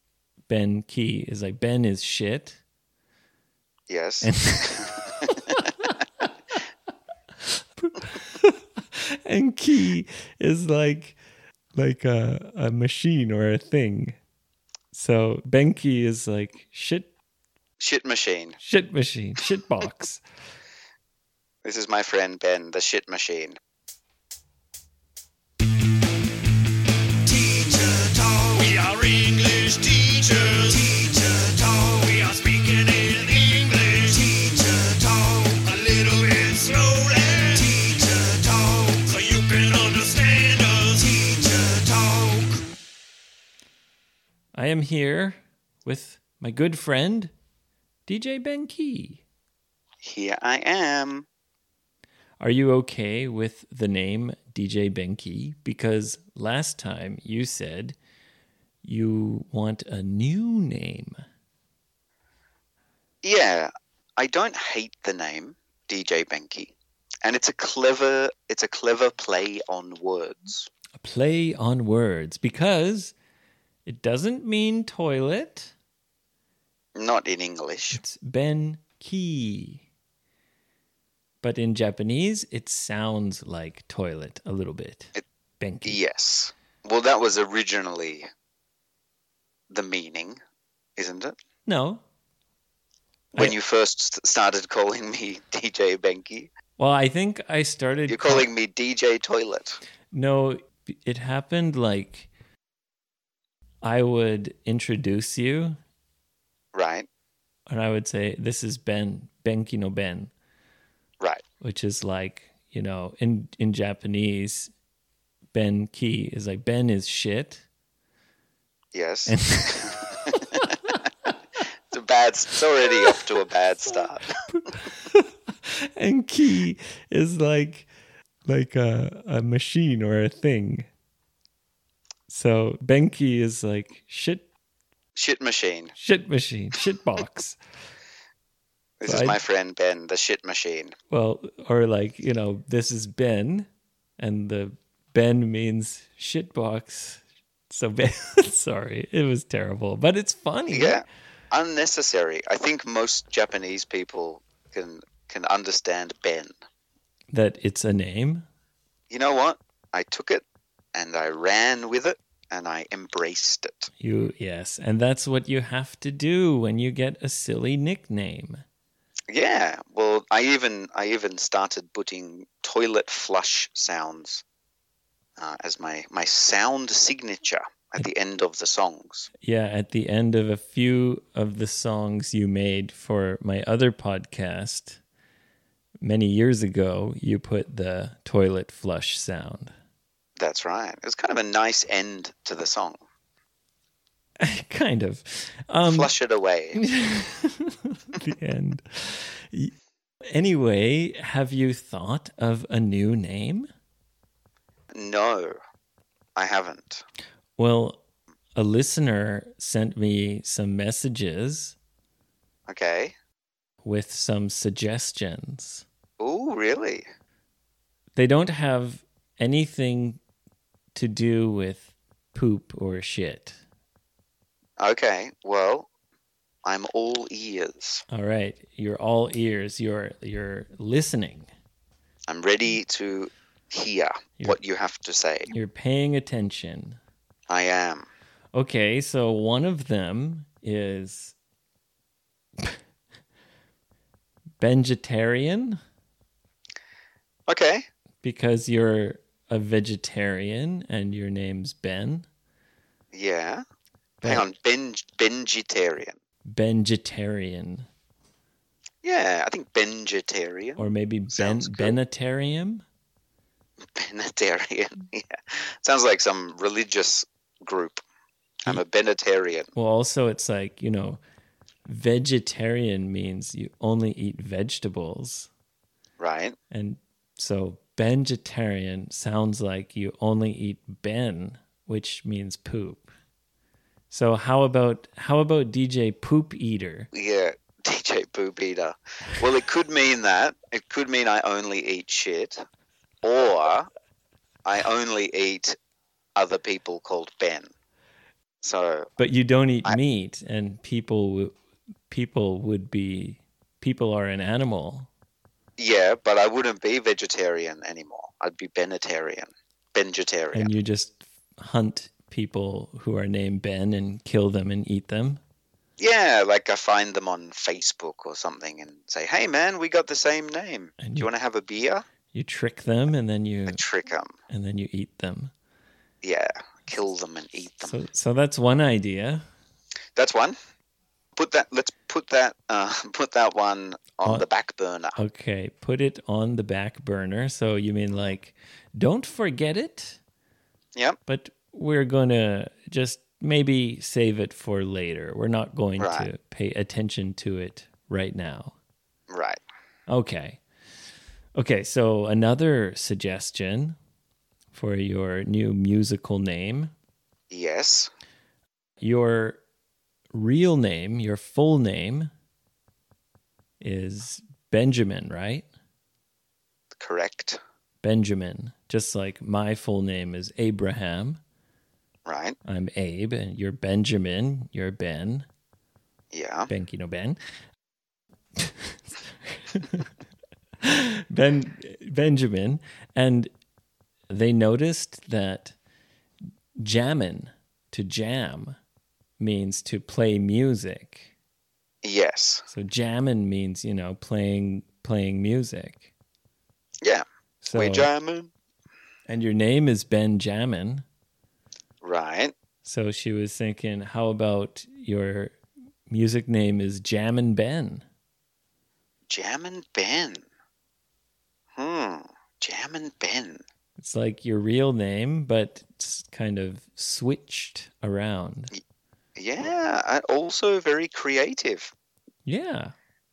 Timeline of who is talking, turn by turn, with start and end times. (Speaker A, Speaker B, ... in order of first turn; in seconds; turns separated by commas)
Speaker A: 0.5-2.6, Speaker B: 3.9-5.3, Speaker A: 4.2-6.3, Speaker A: 7.5-11.2, Speaker A: 11.8-14.2, Speaker A: 14.9-17.1, Speaker B: 17.8-18.6, Speaker A: 18.6-20.2, Speaker B: 21.6-23.6, Speaker C: 27.3-42.6, Speaker A: 44.5-47.3, Speaker A: 48.1-49.2, Speaker B: 50.0-51.3, Speaker A: 52.4-58.0, Speaker A: 58.8-61.2, Speaker B: 63.2-70.7, Speaker A: 71.0-73.2, Speaker A: 73.9-75.7, Speaker B: 77.0-78.0, Speaker A: 77.9-79.8, Speaker A: 81.4-86.0, Speaker B: 85.8-88.3, Speaker B: 89.7-90.4, Speaker B: 91.0-91.3, Speaker A: 91.7-92.0, Speaker B: 93.3-96.5, Speaker A: 96.8-98.5, Speaker B: 98.1-99.8, Speaker A: 100.1-102.3, Speaker A: 103.8-105.8, Speaker B: 106.7-107.1, Speaker A: 107.7-110.3, Speaker A: 111.6-114.7, Speaker A: 115.5-117.6, Speaker B: 118.9-120.7, Speaker A: 119.3-121.0, Speaker B: 121.9-124.7, Speaker A: 124.5-127.9, Speaker A: 128.5-130.9, Speaker A: 132.3-134.5, Speaker B: 135.2-135.9, Speaker A: 136.0-137.6, Speaker B: 139.0-140.9, Speaker A: 139.1-139.4, Speaker A: 141.1-143.7, Speaker A: 144.2-151.0, Speaker B: 150.7-156.5, Speaker A: 157.3-158.5, Speaker B: 159.1-160.4, Speaker B: 160.9-163.9, Speaker A: 164.0-168.6, Speaker B: 169.3-174.4, Speaker B: 175.4-179.3, Speaker A: 179.4-185.0, Speaker A: 186.0-189.7, Speaker B: 190.4-193.0, Speaker A: 194.4-196.1, Speaker B: 195.9-196.8, Speaker A: 196.8-199.7, Speaker A: 200.3-203.7, Speaker B: 204.9-205.6, Speaker B: 206.4-207.1, Speaker A: 207.6-208.0, Speaker A: 208.6-211.8, Speaker B: 212.7-213.2, Speaker A: 213.8-215.8, Speaker B: 216.2-217.1, Speaker A: 218.2-220.2, Speaker A: 220.9-223.6, Speaker B: 224.8-225.9, Speaker B: 226.6-228.0, Speaker A: 228.1-231.5, Speaker B: 232.3-235.5, Speaker A: 235.5-237.0, Speaker B: 237.5-238.1, Speaker A: 238.5-241.3, Speaker A: 244.6-245.8, Speaker B: 247.5-247.8, Speaker A: 248.2-252.3, Speaker B: 253.1-253.6, Speaker A: 254.2-254.5, Speaker B: 254.2-256.2, Speaker A: 256.5-257.9, Speaker B: 259.0-262.0, Speaker A: 260.8-262.9, Speaker B: 263.8-268.0, Speaker B: 268.6-269.7, Speaker A: 269.8-271.2, Speaker A: 271.9-275.5, Speaker B: 276.2-276.6, Speaker A: 276.7-283.1, Speaker A: 284.1-287.1, Speaker B: 287.1-292.6, Speaker B: 293.2-293.9, Speaker B: 294.6-295.8, Speaker B: 296.4-297.7, Speaker B: 298.6-299.1, Speaker A: 299.2-301.5, Speaker A: 302.1-305.1, Speaker B: 305.8-310.7, Speaker A: 310.5-315.4, Speaker B: 316.0-322.1, Speaker A: 321.0-321.3, Speaker A: 322.3-323.8, Speaker B: 323.7-324.3, Speaker A: 324.5-325.5, Speaker B: 326.2-328.0, Speaker A: 327.8-329.4, Speaker B: 330.1-330.6, Speaker B: 331.4-335.2, Speaker A: 335.2-340.2, Speaker A: 341.3-348.8, Speaker B: 346.0-346.3, Speaker B: 349.3-349.6, Speaker A: 350.1-350.6, Speaker A: 351.6-354.0, Speaker A: 354.7-356.9, Speaker B: 357.5-358.1, Speaker A: 359.0-359.6, Speaker A: 360.3-362.3, Speaker A: 363.8-365.7, Speaker B: 367.0-367.6, Speaker A: 368.0-371.4, Speaker B: 372.3-372.6, Speaker A: 372.6-375.5, Speaker B: 376.3-376.7, Speaker A: 376.7-377.4, Speaker A: 378.6-380.1, Speaker A: 380.8-383.5, Speaker A: 384.3-385.8, Speaker A: 386.8-388.8, Speaker A: 389.4-391.3, Speaker B: 392.0-392.7, Speaker A: 392.7-396.1, Speaker B: 397.0-398.5, Speaker A: 397.6-398.1, Speaker A: 399.3-401.1, Speaker B: 402.0-402.5, Speaker A: 402.8-405.6, Speaker A: 406.1-408.1, Speaker B: 409.3-410.4, Speaker B: 411.8-413.6, Speaker A: 414.0-418.7, Speaker B: 419.4-421.9, Speaker A: 422.4-422.9